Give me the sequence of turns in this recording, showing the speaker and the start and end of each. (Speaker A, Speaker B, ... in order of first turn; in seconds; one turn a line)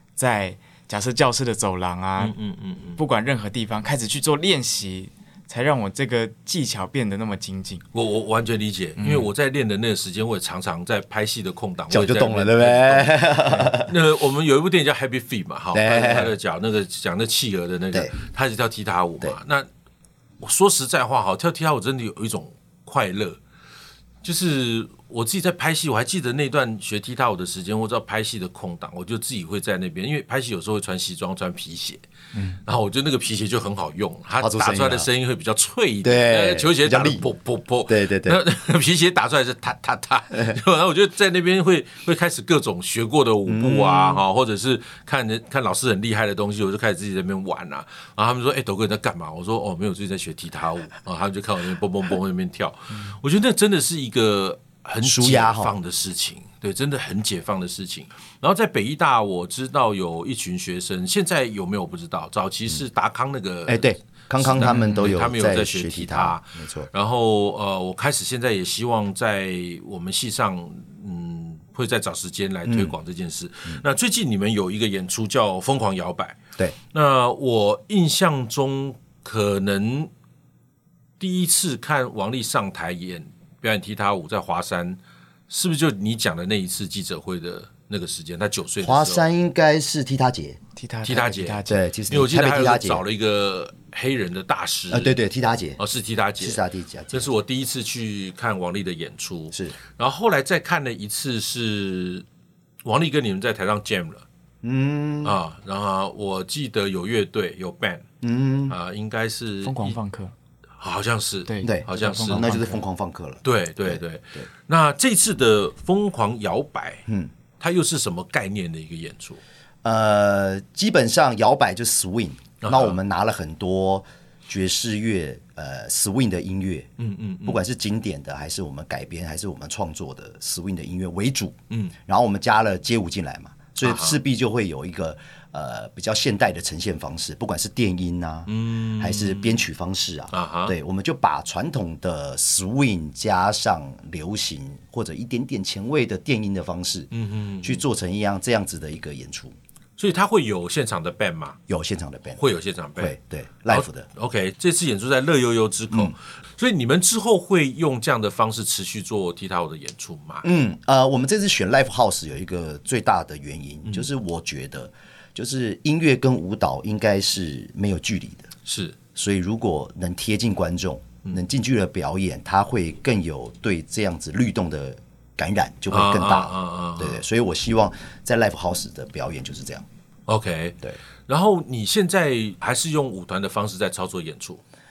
Speaker A: 0.2-2.4
Speaker B: 2.2-3.0
Speaker A: 3.0-7.8
Speaker B: 7.9-19.7
Speaker A: 9.0-9.3
Speaker C: 11.9-14.0
Speaker C: 15.7-16.3
Speaker B: 20.4-23.4
Speaker B: 24.2-32.0
Speaker B: 32.6-76.4
Speaker C: 34.4-35.1
Speaker C: 36.0-37.2
Speaker C: 37.9-38.4
Speaker C: 43.5-44.2
Speaker C: 55.0-55.7
Speaker C: 63.7-66.9
Speaker A: 64.6-65.1
Speaker C: 72.7-73.0
Speaker B: 76.9-80.1
Speaker B: 81.2-89.2
Speaker C: 88.8-90.6
Speaker A: 90.8-91.8
Speaker B: 91.0-95.1
Speaker C: 91.7-93.0
Speaker C: 94.9-95.8
Speaker B: 95.8-102.2
Speaker C: 96.4-97.3
Speaker B: 102.8-104.2
Speaker C: 104.6-105.4
Speaker B: 105.2-108.0
Speaker C: 108.2-108.8
Speaker B: 108.7-110.0
Speaker A: 109.6-110.3
Speaker B: 110.8-112.5
Speaker A: 111.5-112.8
Speaker C: 111.6-114.5
Speaker B: 113.4-117.0
Speaker C: 117.1-117.3
Speaker B: 117.6-119.4
Speaker C: 119.8-126.9
Speaker B: 122.6-123.0
Speaker B: 127.0-127.6
Speaker C: 127.5-147.1
Speaker B: 133.8-134.2
Speaker B: 138.5-139.7
Speaker B: 140.3-140.8
Speaker B: 147.1-147.8
Speaker C: 147.6-149.5
Speaker B: 150.0-151.6
Speaker C: 151.7-152.4
Speaker B: 152.4-153.2
Speaker C: 153.0-154.1
Speaker B: 153.7-160.4
Speaker C: 160.4-168.5
Speaker B: 168.7-169.0
Speaker C: 169.1-179.8
Speaker B: 175.9-177.2
Speaker B: 180.3-184.6